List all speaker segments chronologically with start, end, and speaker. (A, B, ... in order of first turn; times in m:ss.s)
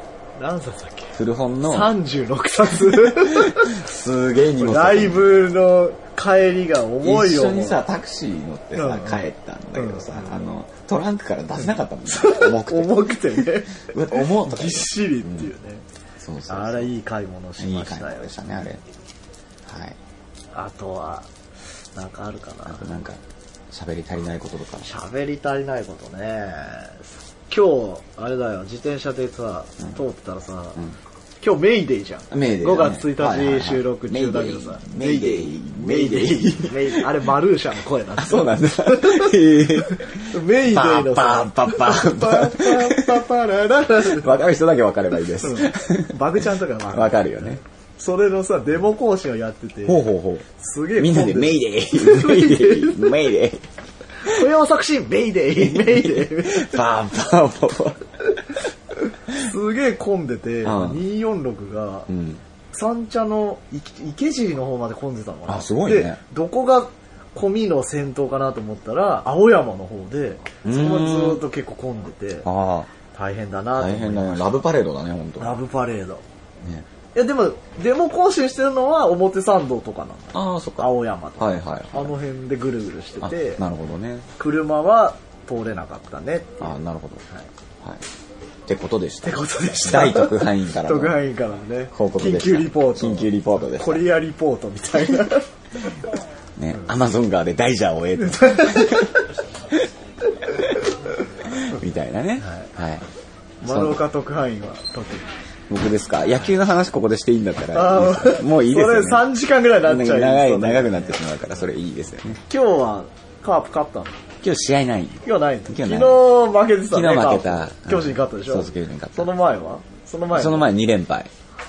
0:00.4-0:03.8 A
0:01.2-0:01.9 B
0:02.9-0:05.4 B
0:04.6-0:07.8 A
0:07.0-0:15.5 B
0:08.8-0:09.2 A
0:09.8-0:10.3 A
0:12.1-0:15.8 A
0:16.2-0:16.9 B
0:16.5-0:18.5 A
0:17.6-0:18.8 B
0:19.7-0:20.0 B
0:20.5-0:21.3 A
0:22.0-0:22.9 A
0:22.7-0:24.9 B
0:24.8-0:30.8 A
0:31.4-0:44.3 A
0:32.3-0:37.1 B
0:38.2-0:43.2 B
0:44.0-0:46.2 B
0:45.4-0:53.2 A
0:46.9-0:47.6 B
0:49.9-0:53.6 B
0:54.2-0:56.7 A
0:55.6-0:58.3 B
0:59.3-1:02.1 A
1:00.6-1:01.0 B
1:02.1-1:02.4 B
1:02.7-1:12.5 A
1:05.5-1:06.2 B
1:10.6-1:11.4 B
1:12.4-1:12.9 B
1:13.1-1:14.6 A
1:13.8-1:15.6 B
1:15.4-1:16.2 A
1:17.1-1:23.6 A
1:20.3-1:22.1 B
1:23.2-1:24.3 B
1:24.4-1:26.8 A
1:26.6-1:27.3 B
1:28.7-1:31.2 B
1:29.2-1:35.5 A
1:31.9-1:34.0 B
1:36.6-1:39.2 B
1:38.2-1:39.3 A
1:40.5-1:40.7 B
1:41.5-1:43.1 B
1:42.4-1:42.7 A
1:43.6-1:44.0 B
1:43.6-1:45.3 A
1:45.7-1:49.3 B
1:47.7-1:51.2 A
1:49.8-1:52.4 B
1:52.5-1:54.2 A
1:54.4-1:56.3 B
1:55.2-2:00.7 A
1:56.9-1:59.3 B
2:00.3-2:01.3 B